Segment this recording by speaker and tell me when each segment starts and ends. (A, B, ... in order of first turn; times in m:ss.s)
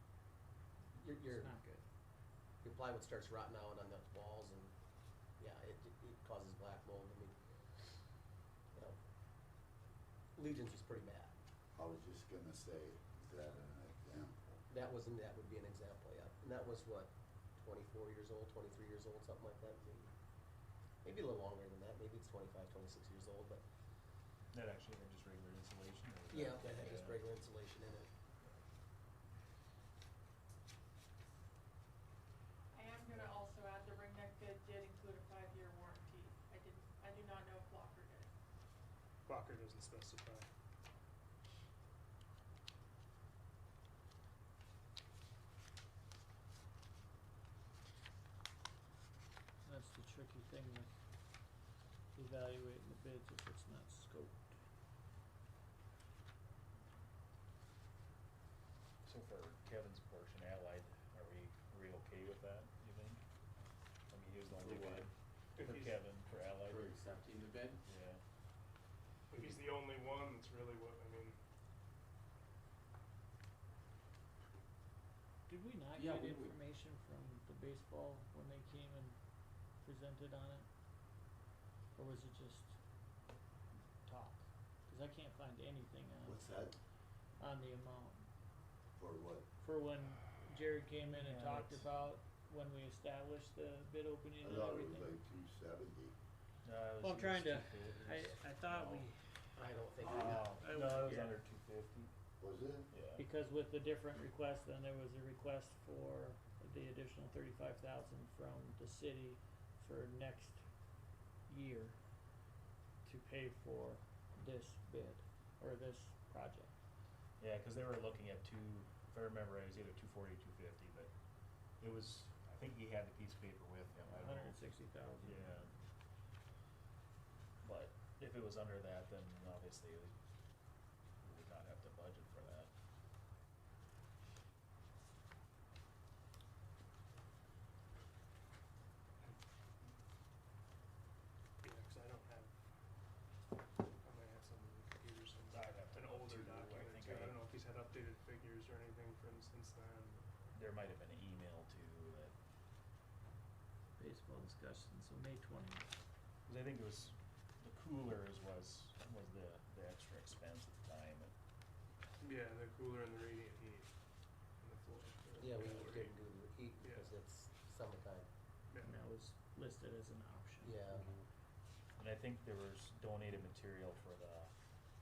0:00.9-0:01.5 A
0:01.2-0:01.8 B
0:02.6-0:04.7 A
0:05.4-0:07.3 A
0:10.3-0:11.3 A
0:11.7-0:14.6 C
0:14.7-0:20.1 A
0:21.0-0:23.6 A
0:24.5-0:27.3 D
0:26.3-0:28.1 A
0:32.7-0:38.3 E
0:39.2-0:40.5 F
0:49.6-0:50.9 B
0:52.1-0:54.5 B
0:59.0-1:03.2 D
1:04.1-1:06.9 D
1:04.5-1:05.1 G
1:05.6-1:06.0 F
1:06.6-1:07.8 G
1:07.8-1:08.2 D
1:09.3-1:11.4 F
1:15.5-1:19.2 B
1:15.9-1:16.6 G
1:19.8-1:20.7 B
1:22.0-1:22.8 B
1:24.0-1:26.4 B
1:26.2-1:26.8 C
1:27.4-1:28.3 B
1:29.0-1:29.5 C
1:29.6-1:35.2 B
1:31.2-1:31.8 D
1:34.4-1:36.1 C
1:36.6-1:39.1 D
1:37.0-1:39.2 B
1:39.5-1:40.6 A
1:40.0-1:42.1 D
1:40.6-1:41.4 B
1:42.4-1:42.9 C
1:42.9-1:43.2 D
1:43.2-1:50.6 B
1:51.5-1:52.0 B
1:53.0-1:56.7 B
1:57.4-2:01.1 D
2:01.8-2:04.6 D
2:04.0-2:05.7 B
2:05.2-2:05.7 D
2:07.6-2:10.1 D
2:11.2-2:12.7 D
2:19.2-2:20.0 F
2:21.6-2:22.5 F
2:24.0-2:30.2 F
2:25.5-2:27.4 D
2:30.5-2:32.3 D
2:34.0-2:35.9 B
2:36.5-2:41.3 D
2:42.2-2:43.9 F
2:44.6-2:46.2 F
2:45.4-2:48.3 A
2:46.8-2:47.1 F
2:48.7-2:49.0 F
2:48.8-2:50.8 B
2:50.6-2:51.1 A
2:52.0-2:54.5 D